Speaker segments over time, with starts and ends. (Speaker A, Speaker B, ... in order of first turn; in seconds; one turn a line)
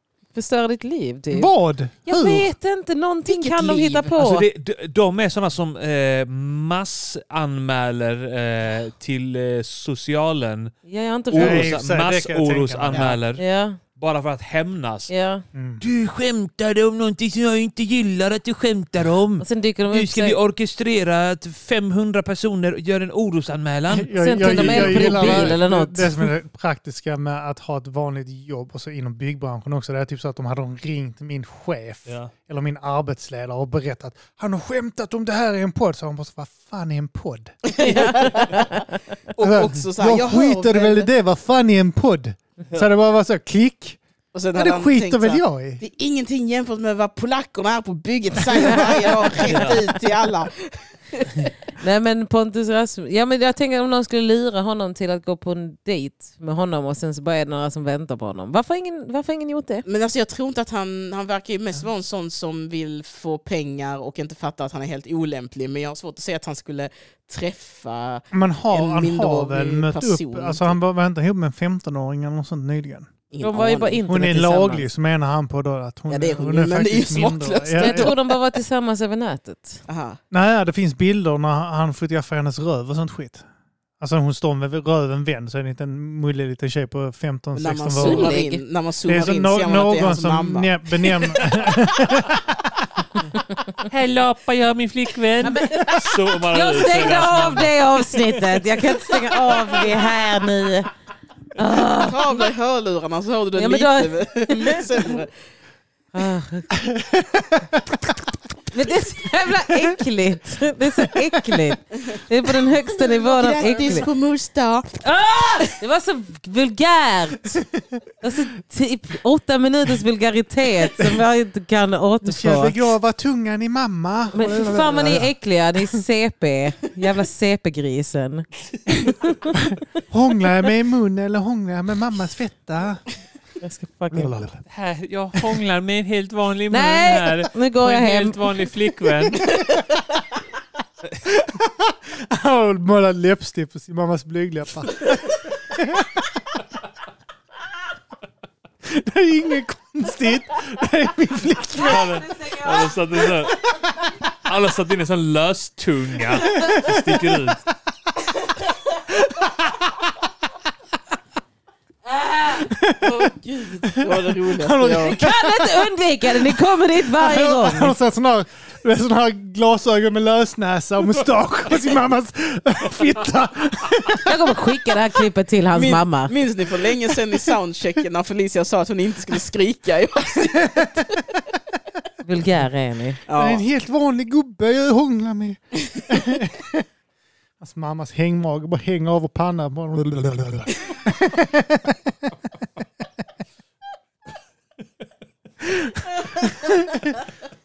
Speaker A: 0.3-1.5
Speaker B: 1.3-2.5
Speaker A: 2.0-4.5
Speaker C: 3.3-4.1
Speaker D: 4.2-10.7
Speaker A: 10.8-11.7
Speaker D: 11.3-13.4
Speaker B: 11.3-13.2
Speaker C: 12.9-13.2
Speaker A: 13.4-13.8
Speaker D: 13.9-15.1
Speaker A: 15.1-15.4
Speaker B: 15.6-15.8
Speaker D: 15.8-25.6
Speaker A: 19.4-20.4
Speaker B: 23.9-37.6
Speaker A: 24.2-26.1
Speaker D: 32.1-32.3
Speaker C: 37.7-38.8
Speaker A: 37.8-39.0
Speaker C: 39.3-41.1
Speaker B: 39.4-44.0
Speaker C: 44.3-51.5
Speaker B: 44.5-45.8
Speaker D: 49.4-49.8
Speaker A: 51.8-59.9
Speaker C: 59.9-70.8
Speaker B: 68.3-73.1
Speaker C: 73.3-74.0
Speaker A: 73.4-74.9
Speaker B: 74.1-78.1
Speaker C: 76.1-78.2
Speaker A: 77.8-79.8
Speaker C: 79.9-80.2
Speaker B: 80.3-83.5
Speaker B: 84.0-88.4
Speaker C: 87.5-91.7
Speaker A: 88.0-88.6
Speaker B: 89.1-92.7
Speaker D: 93.9-98.6
Speaker A: 95.4-100.9
Speaker A: 101.6-102.5
Speaker C: 102.0-105.3
Speaker A: 103.5-105.2
Speaker A: 106.1-106.7
Speaker B: 106.8-108.0
Speaker A: 108.7-114.1
Speaker C: 113.0-114.9
Speaker A: 115.0-117.7
Speaker A: 118.2-122.8
Speaker B: 122.2-125.3
Speaker A: 124.3-129.6
Speaker B: 130.1-133.0
Speaker A: 133.6-134.3
Speaker B: 134.1-134.6
Speaker D: 134.7-139.6
Speaker A: 136.7-138.4
Speaker B: 141.2-146.3
Speaker B: 148.8-152.1
Speaker A: 151.8-153.0
Speaker D: 151.8-153.8
Speaker D: 154.4-157.6
Speaker B: 156.4-157.2
Speaker B: 159.4-159.8
Speaker A: 162.1-162.6
Speaker B: 162.6-163.3
Speaker C: 163.2-165.2
Speaker B: 163.8-174.6
Speaker A: 165.0-167.9
Speaker A: 174.2-176.3
Speaker C: 175.7-181.3
Speaker A: 182.2-183.2
Speaker C: 183.3-183.6
Speaker B: 183.3-186.8
Speaker B: 187.6-192.3
Speaker B: 195.6-197.2